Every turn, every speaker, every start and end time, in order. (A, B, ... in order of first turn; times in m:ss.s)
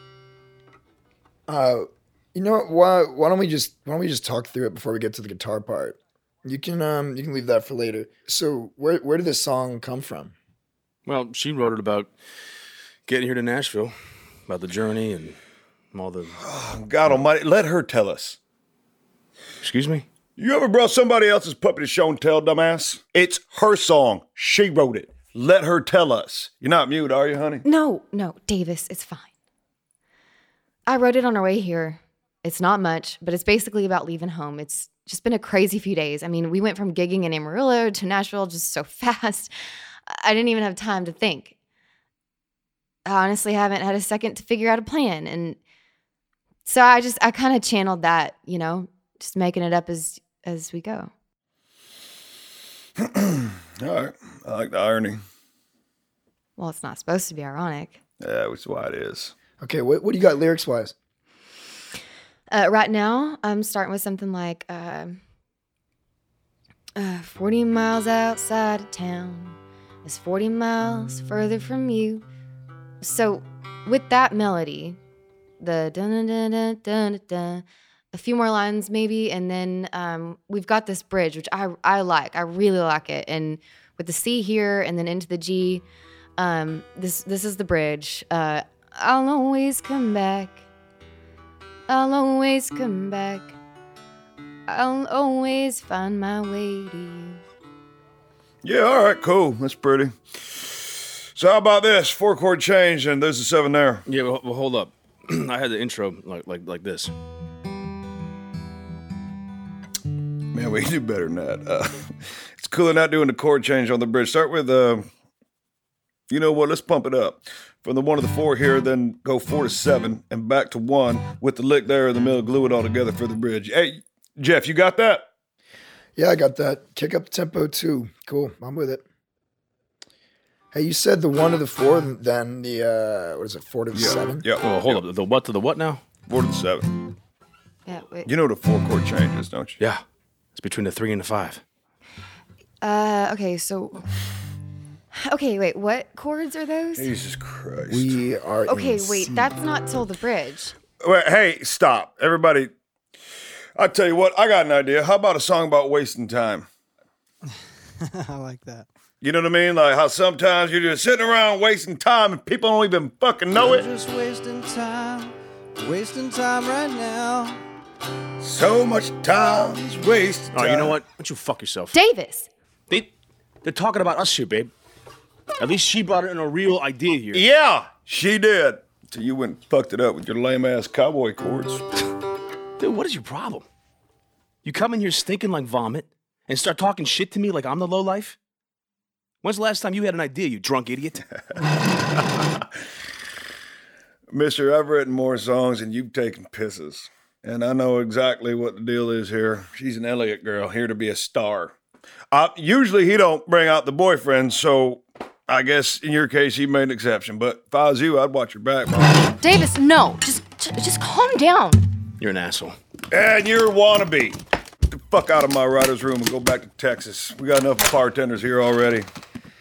0:01.5-0:10.3 A
0:11.1-0:12.1 B
0:13.1-0:13.9 B
0:14.5-0:15.4 B
0:15.9-0:16.4 B
0:16.4-0:18.4 C
0:19.6-0:20.1 B
0:20.4-0:27.6 C
0:27.6-0:29.3 D
0:30.9-0:39.5 D
0:40.1-0:41.6 D
0:43.1-0:45.6 D
0:46.7-0:51.1 D
0:53.0-0:55.2 C
0:56.6-0:58.0 D
0:58.2-0:59.3 C
0:59.6-1:00.9 A
1:02.5-1:05.2 D
1:07.0-1:12.2 D
1:13.0-1:15.0 D
1:15.6-1:25.8 D
1:26.4-1:30.7 D
1:31.9-1:33.6 D
1:34.7-1:37.4 D
1:38.6-1:40.2 C
1:41.4-1:44.0 C
1:44.1-1:47.1 B
1:50.5-1:55.1 C
1:56.3-2:05.3 C
2:06.2-2:09.0 A
2:10.7-2:14.5 A
2:13.9-2:15.0 C
2:14.6-2:16.0 B
2:16.3-2:16.9 C
2:17.9-2:18.3 D
2:18.3-2:19.8 C
2:20.6-2:21.6 B
2:22.8-2:24.0 D
2:25.1-2:27.1 D
2:27.0-2:28.2 C
2:27.9-2:29.5 A
2:28.7-2:30.8 D
2:31.0-2:32.7 C
2:33.8-2:36.7 C
2:38.0-2:38.9 E
2:39.2-2:43.9 C
2:43.6-2:47.6 E
2:48.4-2:51.0 C
2:50.5-2:52.0 B
2:51.9-2:52.5 D
2:53.6-2:54.7 B
2:55.6-2:57.4 B
2:57.3-3:01.8 C
3:02.8-3:03.7 B
3:04.6-3:08.4 B
3:09.4-3:11.3 B
3:14.3-3:21.8 C
3:22.3-3:29.3 C
3:29.4-3:31.8 D
3:32.2-3:32.8 B
3:33.1-3:34.4 C
3:34.9-3:39.1 C